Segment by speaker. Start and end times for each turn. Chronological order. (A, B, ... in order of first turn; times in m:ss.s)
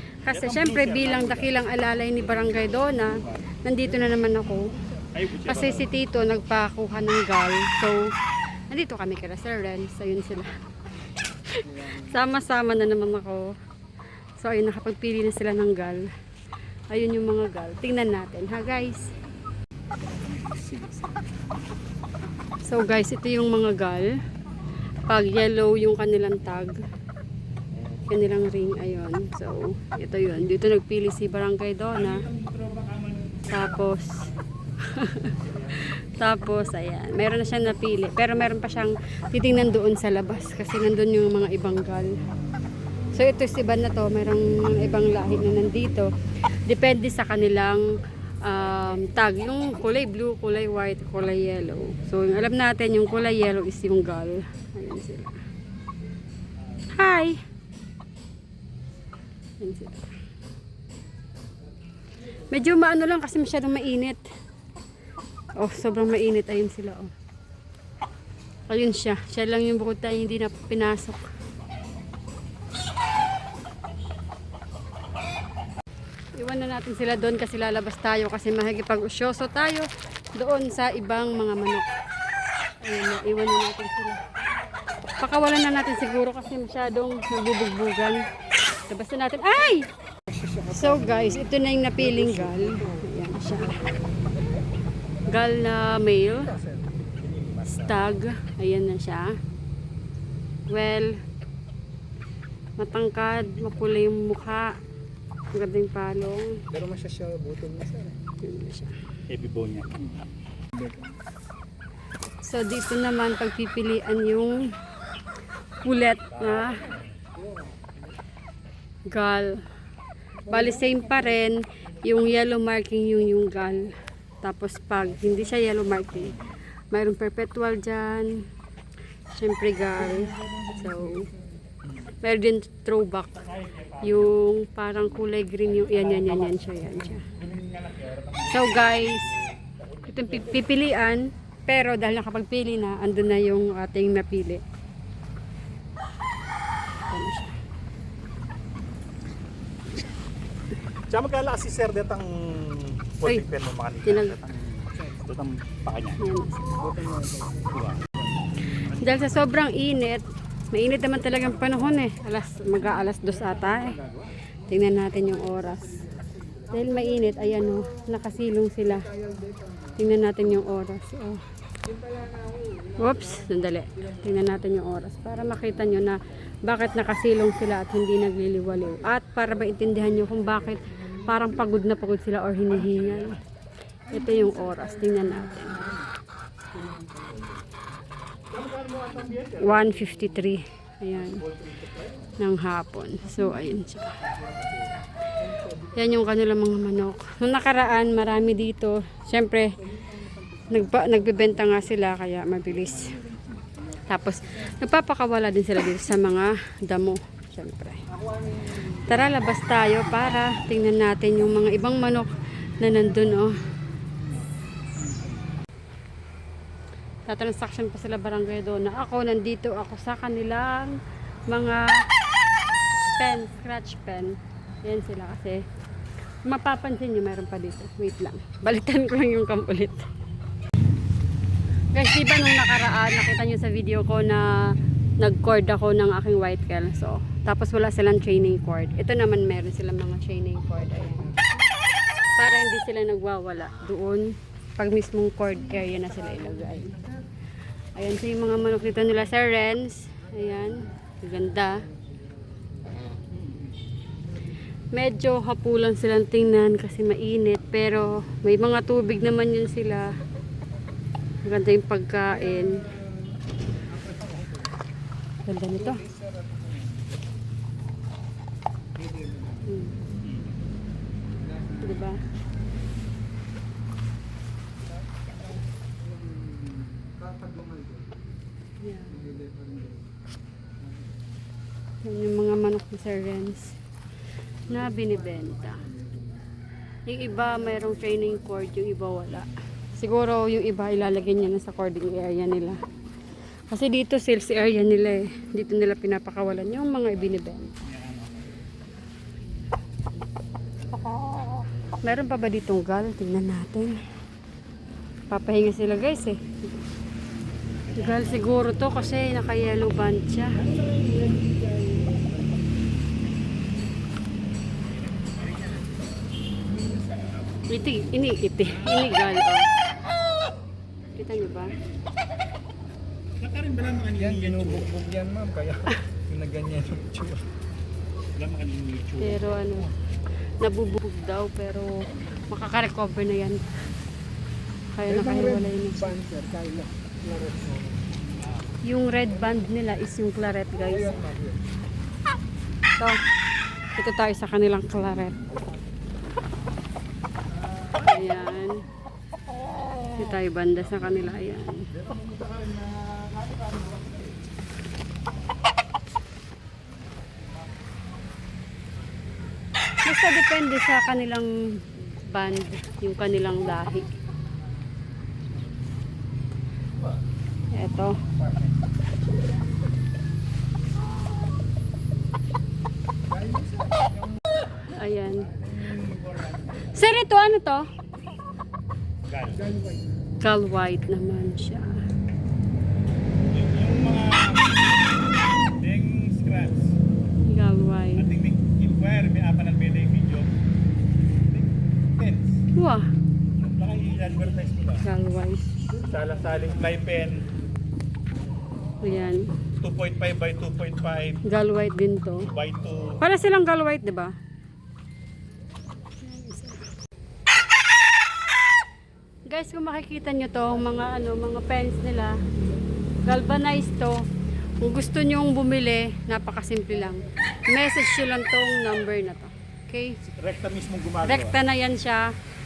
0:00.2-0:04.7 A
0:00.3-0:03.4 B
0:05.1-0:05.9 B
0:05.4-0:08.1 A
0:08.7-0:10.5 A
0:11.5-0:13.5 A
0:11.7-0:12.1 C
0:14.4-0:16.1 A
0:16.9-0:19.1 A
0:20.0-0:21.1 B
0:22.6-0:24.1 A
0:25.1-0:26.8 A
0:27.9-0:32.3 A
0:32.0-0:34.3 B
0:33.5-0:34.3 A
0:34.8-0:35.4 A
0:35.4-0:35.8 B
0:35.9-0:42.2 A
0:43.2-0:46.1 A
0:46.7-0:47.8 A
0:48.4-0:55.4 A
0:56.9-0:57.4 A
0:59.6-1:00.1 A
1:02.5-1:04.2 A
1:05.6-1:07.1 A
1:08.7-1:11.2 A
1:16.4-1:21.9 A
1:22.8-1:24.2 A
1:25.2-1:28.2 A
1:28.9-1:29.9 A
1:30.3-1:33.1 C
1:30.7-1:33.9 A
1:33.6-1:34.0 C
1:35.3-1:36.6 A
1:36.4-1:36.9 C
1:37.2-1:38.1 B
1:37.6-1:39.4 A
1:40.7-1:41.2 A
1:42.8-1:44.7 A
1:45.6-1:46.6 A
1:46.7-1:48.2 C
1:48.4-1:49.0 A
1:49.3-1:50.3 B
1:52.4-1:54.7 A
1:55.8-1:56.9 A
1:56.3-1:57.1 B
1:59.1-1:59.6 A
2:00.4-2:08.4 A
2:09.3-2:11.3 A
2:10.2-2:10.6 B
2:12.2-2:13.5 A
2:13.4-2:14.3 B
2:14.0-2:17.3 A
2:15.6-2:20.7 B
2:18.5-2:19.3 A
2:20.1-2:24.6 A
2:27.1-2:27.6 A
2:31.1-2:36.2 B
2:34.0-2:34.4 A
2:36.2-2:36.8 A
2:36.8-2:37.7 C
2:37.7-2:38.1 B
2:38.9-2:44.0 A
2:38.9-2:39.3 B
2:42.7-2:44.3 B
2:44.6-2:46.0 A
2:46.5-2:46.8 C
2:46.7-2:49.1 A
2:49.0-2:50.0 C
2:50.0-2:51.4 A
2:51.8-2:53.5 C
2:53.0-3:03.4 A
3:02.7-3:03.4 B
3:04.1-3:05.9 A
3:04.1-3:05.1 C
3:06.8-3:07.3 C
3:08.5-3:10.5 B
3:09.6-3:11.4 A
3:11.1-3:12.4 B
3:12.4-3:14.2 A
3:15.9-3:19.7 A
3:20.0-3:21.4 C
3:20.7-3:23.2 A
3:22.7-3:23.8 B
3:24.0-3:28.0 A
3:28.2-3:28.8 C
3:29.0-3:33.6 A
3:37.3-3:41.0 A
3:41.5-3:42.0 A
3:43.2-3:45.6 A
3:46.4-3:50.1 A
3:51.9-3:54.7 A
3:55.2-4:01.6 A
4:02.4-4:07.0 A
4:08.0-4:11.9 A
4:14.9-4:20.2 A
4:21.4-4:22.9 A
4:22.5-4:23.1 C
4:23.9-4:24.7 C
4:25.5-4:26.0 A
4:25.8-4:27.1 C
4:29.0-4:29.6 C
4:29.6-4:30.0 A
4:31.5-4:32.0 C
4:31.8-4:32.2 A
4:37.0-4:38.1 C
4:38.8-4:39.2 A
4:39.1-4:40.0 C
4:42.0-4:43.8 A
4:44.7-4:45.9 A
4:45.8-4:46.2 C
4:47.1-4:52.8 A
4:53.7-4:57.8 A
4:57.9-4:58.6 B
5:00.9-5:04.0 A
5:05.3-5:06.6 A
5:07.9-5:08.5 B
5:08.0-5:10.6 A
5:10.6-5:12.3 B
5:15.2-5:16.0 B
5:16.8-5:17.5 B
5:17.7-5:19.7 A
5:18.6-5:19.4 B
5:21.2-5:21.8 A
5:23.4-5:24.9 B
5:24.2-5:27.5 C
5:28.4-5:29.9 B
5:29.2-5:30.0 A
5:30.6-5:33.6 A
5:35.0-5:36.1 A
5:35.1-5:38.1 C
5:38.4-5:38.7 B
5:38.8-5:41.3 A
5:40.9-5:41.6 C
5:44.0-5:45.4 A
5:47.6-5:48.6 B
5:48.0-5:48.8 A
5:49.8-5:50.2 B
5:50.1-5:51.9 A
5:50.8-5:54.4 B
6:00.0-6:04.2 A
6:07.7-6:08.2 A
6:13.3-6:14.1 C
6:14.8-6:15.5 A
6:15.3-6:17.1 B
6:16.9-6:17.9 A
6:19.3-6:19.7 B
6:19.6-6:20.1 C
6:20.4-6:22.0 A
6:23.5-6:24.8 B
6:25.8-6:27.0 B
6:27.4-6:28.3 A
6:28.2-6:30.5 B
6:31.5-6:32.6 B
6:32.8-6:33.1 A
6:33.6-6:35.0 B
6:35.0-6:35.8 A
6:36.0-6:37.5 B
6:39.0-6:39.5 A
6:39.8-6:41.4 B
6:41.4-6:42.5 A
6:42.4-6:43.2 B
6:43.2-6:44.3 A
6:46.2-6:46.9 A
6:49.5-6:52.4 A
6:53.2-6:54.2 A
6:54.8-7:00.2 A
7:00.4-7:01.6 B
7:01.2-7:02.3 A